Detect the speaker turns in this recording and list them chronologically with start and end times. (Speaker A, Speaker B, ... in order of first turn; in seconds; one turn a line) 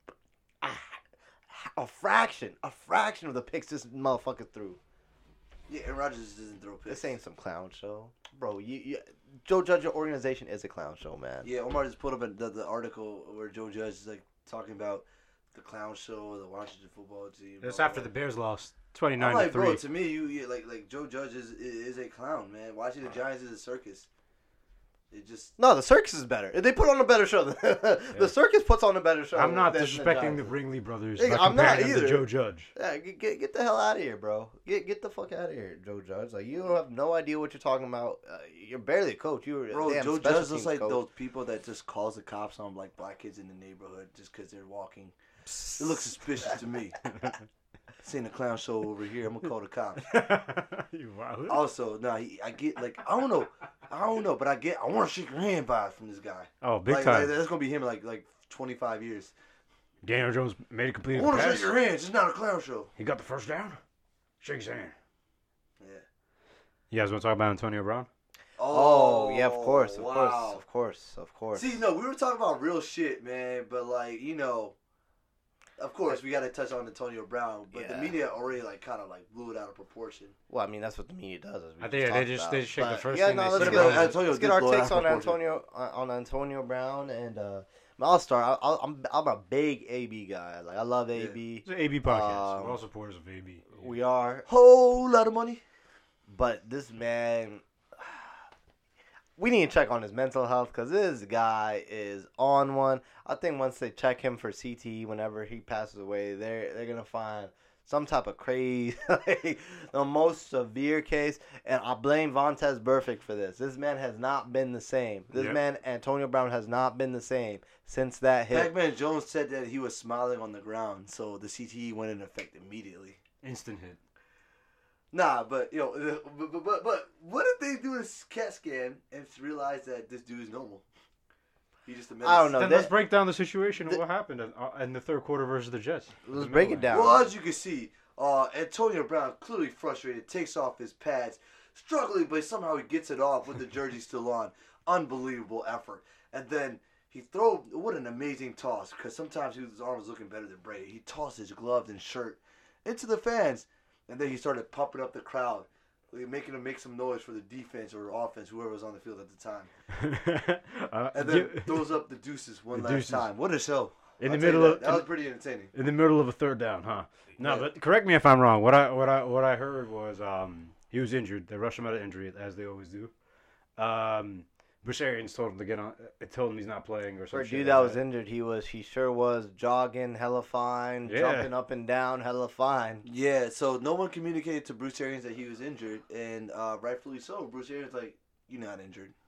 Speaker A: 0.6-4.8
Speaker B: 5.7-7.1
Speaker A: 6.9-11.5
Speaker B: 11.4-18.1
Speaker C: 17.6-19.8
Speaker B: 19.2-24.1
Speaker B: 25.1-25.6
Speaker A: 25.6-30.6
Speaker C: 29.4-32.7
Speaker A: 31.2-41.0
Speaker B: 39.7-45.1
Speaker B: 45.7-47.1
Speaker B: 48.0-50.1
Speaker C: 50.1-51.6
Speaker B: 51.5-59.3
Speaker C: 56.6-57.3
Speaker C: 60.0-61.7
Speaker B: 61.1-62.9
Speaker C: 63.0-63.8
Speaker C: 64.4-65.0
Speaker C: 66.9-68.1
Speaker B: 68.6-70.6
Speaker A: 68.7-71.8
Speaker B: 71.5-74.8
Speaker B: 75.8-80.3
Speaker A: 77.7-78.2
Speaker A: 80.5-92.8
Speaker C: 81.8-84.2
Speaker B: 83.5-85.4
Speaker C: 91.7-93.9
Speaker A: 93.7-94.5
Speaker B: 94.5-95.6
Speaker A: 96.3-98.4
Speaker A: 99.4-118.7
Speaker C: 115.3-115.6
Speaker B: 118.5-123.2
Speaker C: 123.4-124.0
Speaker B: 125.1-130.8
Speaker B: 131.9-132.6
Speaker A: 132.2-132.9
Speaker C: 132.5-136.9
Speaker A: 136.2-137.3
Speaker B: 136.9-159.7
Speaker C: 159.9-162.0
Speaker B: 161.1-165.7
Speaker C: 162.7-163.3
Speaker C: 164.2-165.1
Speaker C: 165.7-173.1
Speaker B: 167.4-167.7
Speaker C: 173.8-178.0
Speaker A: 177.3-183.1
Speaker C: 181.1-181.5
Speaker B: 183.0-189.1